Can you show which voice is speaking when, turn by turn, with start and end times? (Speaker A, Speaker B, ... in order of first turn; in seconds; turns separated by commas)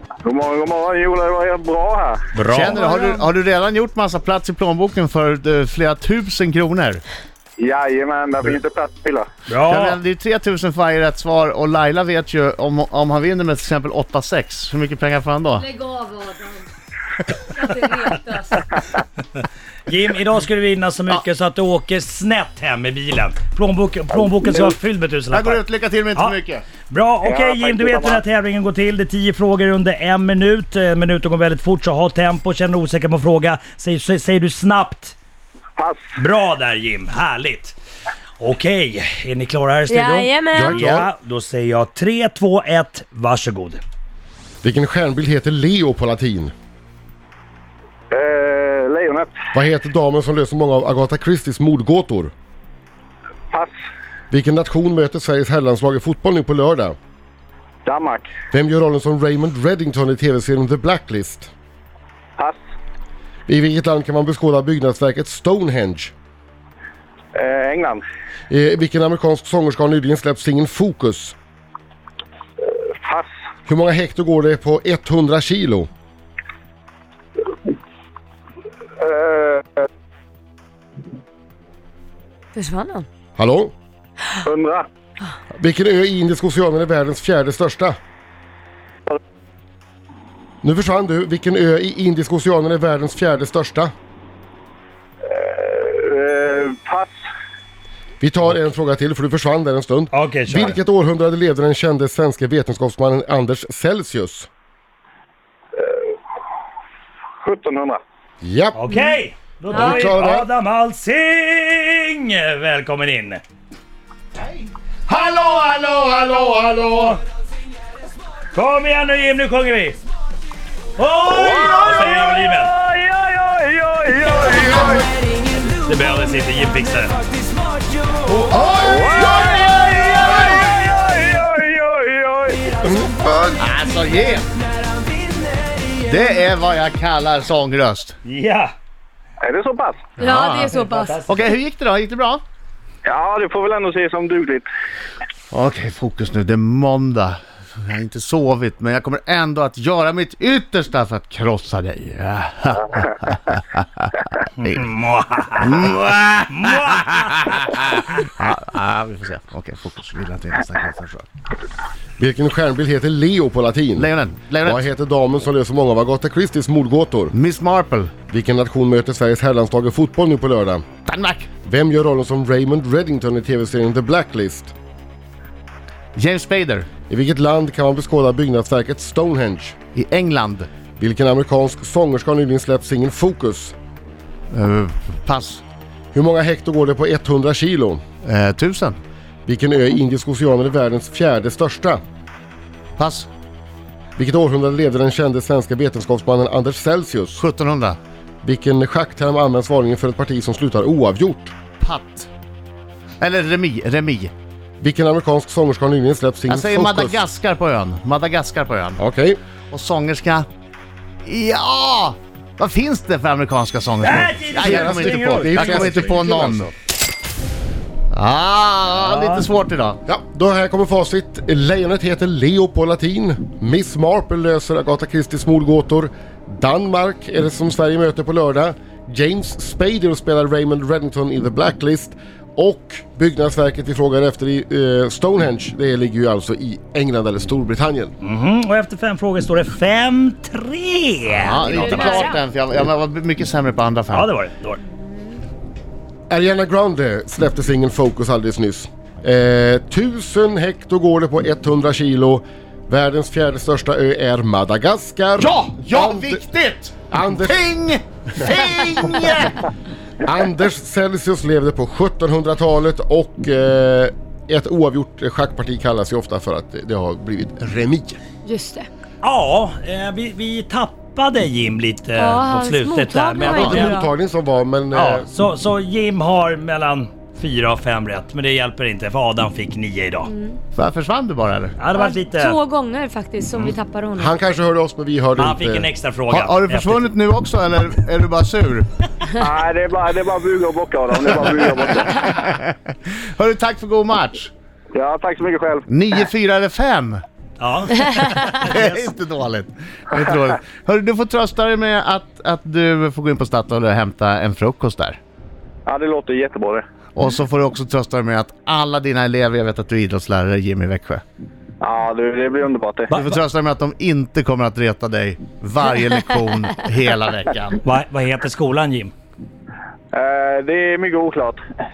Speaker A: 0.2-2.2, Speaker B: 2.3-2.9, Speaker C: 2.5-7.0, Speaker A: 7.6-9.3, Speaker B: 9.5-10.0, Speaker C: 9.6-15.7, Speaker D: 15.6-16.6, Speaker D: 17.5-18.6, Speaker B: 19.9-25.6, Speaker C: 25.3-26.6, Speaker B: 26.9-35.1, Speaker A: 27.2-28.2, Speaker A: 35.8-36.0, Speaker B: 36.1-37.8, Speaker B: 38.4-43.8, Speaker D: 39.9-40.8, Speaker E: 40.5-41.1, Speaker E: 44.6-46.5, Speaker A: 48.1-49.3, Speaker E: 49.5-52.3, Speaker E: 54.3-57.0, Speaker A: 57.8-58.3, Speaker E: 58.5-61.5, Speaker E: 63.5-66.1, Speaker A: 67.3-68.0, Speaker E: 68.5-71.3, Speaker E: 73.7-75.9, Speaker A: 79.0-79.8, Speaker D: 82.5-83.0, Speaker E: 83.3-83.7, Speaker A: 84.4-84.9, Speaker E: 85.5-88.0, Speaker E: 90.6-93.9, Speaker A: 95.2-97.1, Speaker E: 98.2-104.5, Speaker B: 100.1-100.8, Speaker A: 105.8-106.1, Speaker A: 107.4-108.0, Speaker E: 108.4-108.8, Speaker B: 108.7-113.4, Speaker E: 109.7-110.5, Speaker C: 115.2-115.9, Speaker B: 116.0-117.2, Speaker B: 118.5-120.0, Speaker B: 121.0-122.7, Speaker A: 121.2-125.1, Speaker B: 125.8-127.2, Speaker C: 128.5-130.6, Speaker A: 128.8-133.1, Speaker C: 133.4-134.5, Speaker C: 135.9-138.2, Speaker B: 138.2-138.7, Speaker A: 139.4-140.1, Speaker D: 140.2-141.2, Speaker C: 140.2-142.4, Speaker B: 140.7-141.5, Speaker A: 143.0-144.7, Speaker C: 145.5-154.9, Speaker B: 154.6-155.9, Speaker C: 155.6-156.8, Speaker B: 156.5-158.0, Speaker C: 157.7-161.3, Speaker E: 162.2-164.1, Speaker C: 163.9-164.8, Speaker E: 164.6-167.3, Speaker C: 167.3-168.1, Speaker E: 168.3-170.8, Speaker C: 171.0-171.5, Speaker E: 171.7-174.7, Speaker C: 176.1-176.9, Speaker E: 177.1-179.8, Speaker C: 179.9-180.7, Speaker E: 181.0-183.7, Speaker C: 184.5-185.6, Speaker E: 186.1-188.0, Speaker C: 188.2-189.0, Speaker E: 189.4-192.0, Speaker C: 193.0-193.3, Speaker E: 194.2-197.4, Speaker C: 197.3-198.0, Speaker E: 198.4-201.5, Speaker C: 201.8-202.3, Speaker C: 203.2-204.3, Speaker E: 204.8-207.2, Speaker C: 206.5-209.0, Speaker E: 209.0-209.4, Speaker C: 209.7-210.5, Speaker C: 211.2-216.7, Speaker B: 214.0-216.1, Speaker E: 214.5-216.7, Speaker C: 218.1-220.0, Speaker B: 219.0-219.4, Speaker E: 220.1-238.1, Speaker B: 238.2-242.3, Speaker C: 241.3-244.3, Speaker D: 241.6-242.4, Speaker B: 244.1-244.8, Speaker E: 246.3-256.4, Speaker C: 255.4-259.6, Speaker E: 257.1-257.6, Speaker E: 260.2-268.2, Speaker D: 268.4-268.9, Speaker B: 269.2-274.0, Speaker D: 272.1-274.1, Speaker E: 273.4-275.2, Speaker B: 274.9-280.3, Speaker D: 280.2-280.6, Speaker C: 280.7-281.8, Speaker B: 281.8-282.6, Speaker D: 281.9-284.3, Speaker E: 284.1-285.9, Speaker B: 285.4-287.0, Speaker C: 286.3-288.9, Speaker A: 289.4-292.2, Speaker C: 292.1-294.5, Speaker A: 294.9-295.8, Speaker C: 295.9-297.2, Speaker B: 297.6-299.1, Speaker C: 298.4-305.2, Speaker A: 305.9-306.8, Speaker C: 307.1-311.2, Speaker A: 311.8-313.1, Speaker B: 313.1-313.4, Speaker C: 313.1-317.8, Speaker B: 317.8-319.1, Speaker A: 320.1-321.6